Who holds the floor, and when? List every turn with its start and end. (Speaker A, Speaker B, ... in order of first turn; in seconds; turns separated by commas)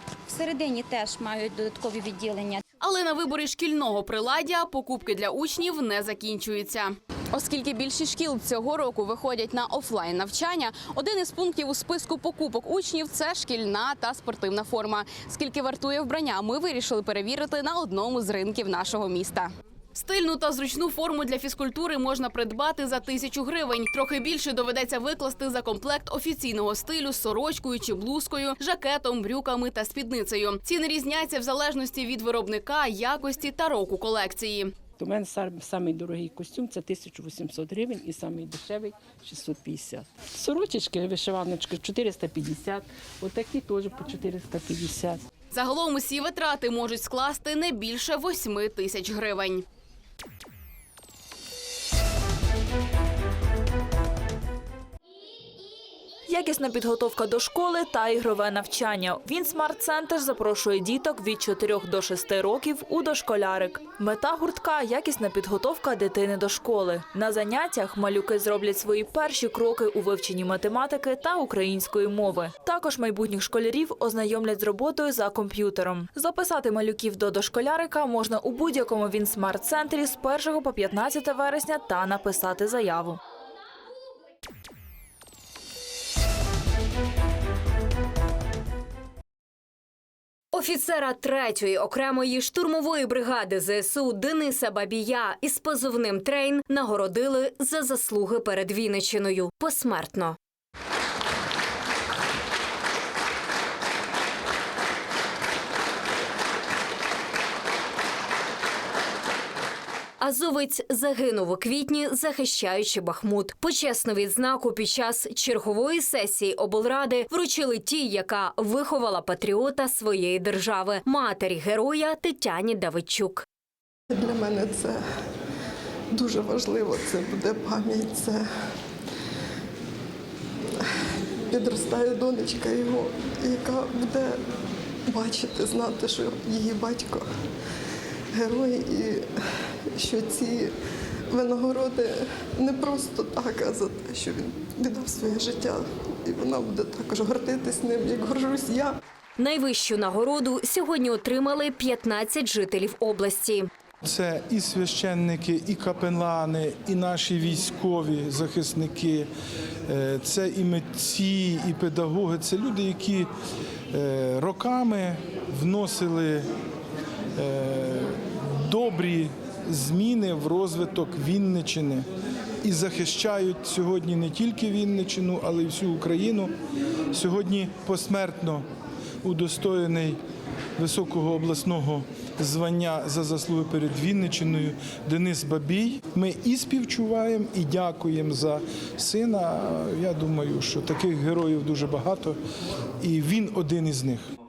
Speaker A: 0.3-2.6, Speaker B: 2.8-34.8, Speaker C: 35.0-45.2, Speaker B: 45.5-49.6, Speaker D: 56.3-83.2, Speaker E: 90.5-100.4, Speaker E: 110.2-123.5, Speaker F: 124.1-125.0, Speaker F: 126.1-128.4, Speaker F: 131.5-134.4, Speaker F: 135.1-137.3, Speaker F: 138.3-140.7, Speaker F: 141.3-149.0, Speaker E: 149.4-153.7, Speaker G: 154.0-159.3, Speaker G: 159.9-163.3, Speaker G: 163.9-166.5, Speaker G: 167.4-172.1, Speaker G: 172.6-176.5, Speaker G: 177.1-178.7, Speaker G: 179.2-180.2, Speaker G: 180.8-192.4, Speaker G: 193.0-194.3